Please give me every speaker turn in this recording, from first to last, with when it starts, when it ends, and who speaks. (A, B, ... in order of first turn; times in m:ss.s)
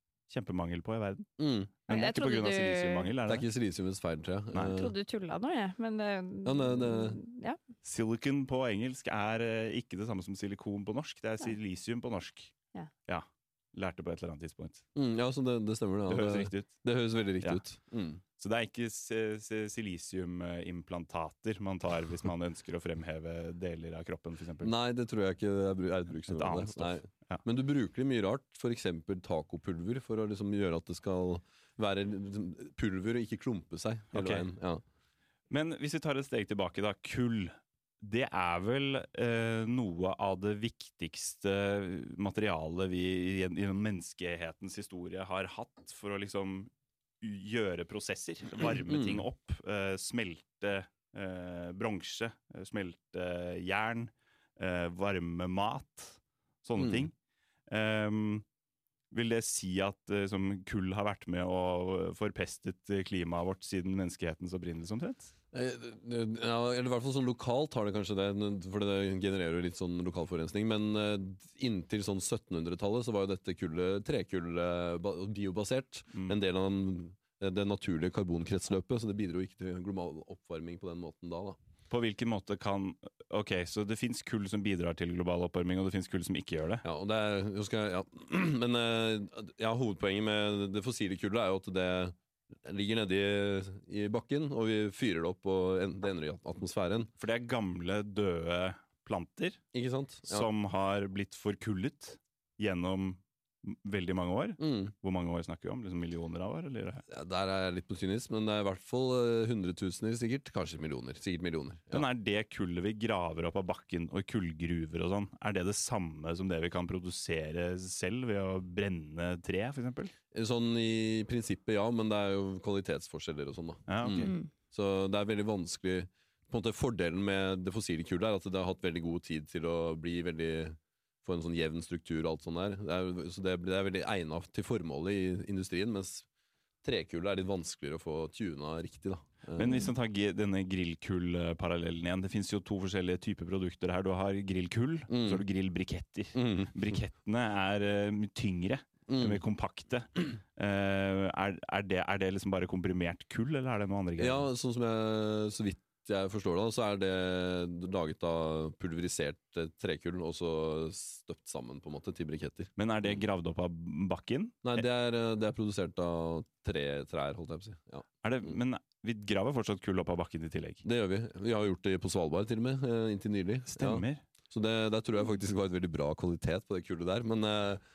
0:00.3-0:01.3 A
0:01.4-0:01.7 B
0:01.8-0:03.4 A
0:01.9-0:03.1 C
0:03.2-0:04.9 B
0:04.7-0:07.6 C
0:06.4-0:07.2 B
0:07.8-0:12.5 A
0:13.1-0:14.8 A
0:14.9-0:18.2 B
0:16.1-0:16.8 A
0:18.4-0:24.7 A
0:24.6-0:34.8 B
0:26.3-0:27.4 A
0:34.1-0:34.4 A
0:35.5-0:46.7 A
0:47.2-0:57.1 A
0:48.6-0:49.2 B
0:56.8-0:57.1 B
0:57.7-0:58.4 A
0:59.1-1:05.3 A
1:05.5-1:21.6 B
1:21.9-1:26.8 A
1:26.8-1:37.1 B
1:37.2-1:39.6 A
1:39.7-1:40.5 B
1:40.3-1:47.0 A
1:44.6-1:44.9 B
1:47.1-1:52.0 B
1:51.9-2:00.1 A
2:00.3-2:16.2 B
2:03.9-2:04.3 A
2:04.1-2:04.5 C
2:16.8-2:19.9 B
2:19.6-2:34.5 A
2:25.1-2:25.4 B
2:26.3-2:26.9 B
2:29.1-2:29.4 B
2:34.2-2:43.2 B
2:42.8-2:44.8 A
2:44.6-2:48.5 B
2:48.2-2:50.8 A
2:50.8-2:57.8 B
2:53.7-2:54.2 A